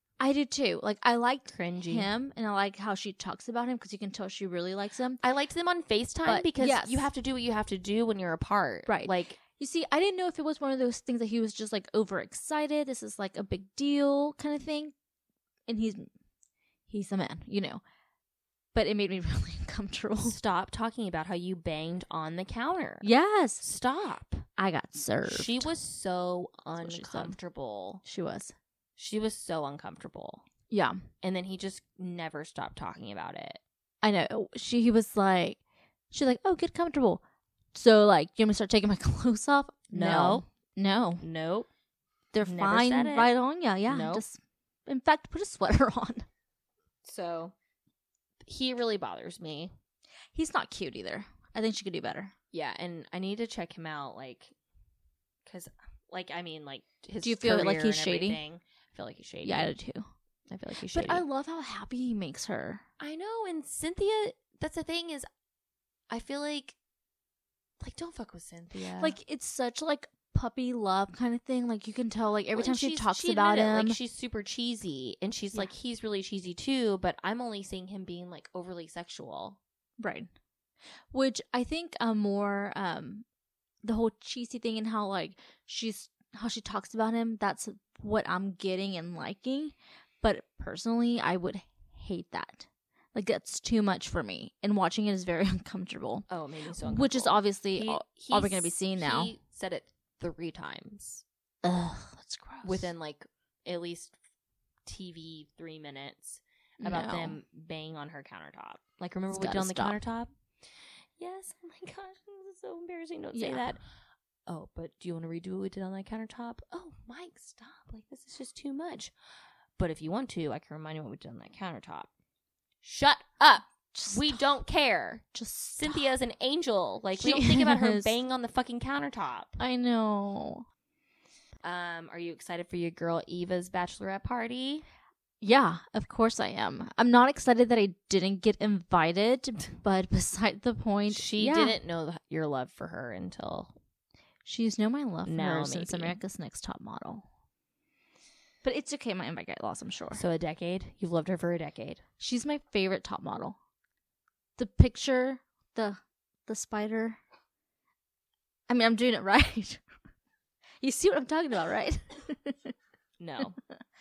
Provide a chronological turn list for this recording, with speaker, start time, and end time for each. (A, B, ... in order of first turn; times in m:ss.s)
0:00.2-0:05.2 A
0:01.5-0:02.1 B
0:05.2-0:09.4 B
0:06.2-0:07.1 A
0:08.9-0:14.9 A
0:15.7-0:16.1 A
0:16.9-0:17.8 A
0:18.7-0:20.4 A
0:20.2-0:23.1 B
0:23.0-0:23.6 A
0:23.6-0:24.4 B
0:24.6-0:25.7 A
0:25.2-0:28.0 B
0:26.8-0:27.4 A
0:28.0-0:28.5 A
0:29.0-0:30.4 B
0:30.7-0:31.0 A
0:31.2-0:33.6 B
0:34.0-0:35.6 A
0:36.1-0:37.2 A
0:37.7-0:41.2 A
0:39.9-0:40.4 B
0:41.2-0:41.7 B
0:42.3-0:46.2 A
0:42.4-0:43.3 B
0:43.9-0:44.2 B
0:47.0-0:47.5 B
0:48.4-0:49.7 B
0:50.4-0:52.3 A
0:52.5-0:54.5 B
0:55.4-0:59.7 B
0:57.2-0:58.4 A
0:59.4-1:00.0 A
1:00.5-1:01.2 B
1:00.9-1:02.8 A
1:03.0-1:05.3 B
1:06.1-1:06.8 B
1:07.8-1:09.2 B
1:09.0-1:14.0 A
1:12.5-1:19.6 B
1:20.0-1:20.3 A
1:21.1-1:23.2 A
1:23.8-1:36.3 A
1:36.3-1:41.2 B
1:36.8-1:39.3 A
1:41.6-1:42.9 A
1:42.6-1:44.2 B
1:44.8-1:50.3 B
1:46.8-1:47.4 A
1:49.3-1:50.0 A
1:51.2-1:53.8 B
1:53.3-1:53.7 A
1:54.5-1:59.1 B
1:59.8-2:02.1 B
2:02.8-2:05.2 B
2:03.6-2:04.5 A
2:05.3-2:06.1 A
2:05.8-2:09.6 B
2:07.2-2:08.2 A
2:09.6-2:10.6 A
2:11.6-2:14.8 B
2:15.4-2:21.8 A
2:21.1-2:23.7 B
2:24.4-2:27.2 A
2:25.2-2:26.2 B
2:28.6-2:30.2 A
2:30.1-2:32.0 B
2:32.2-2:33.6 A
2:34.6-2:37.2 A
2:38.7-2:39.8 A
2:40.8-2:42.7 A
2:43.2-2:43.6 B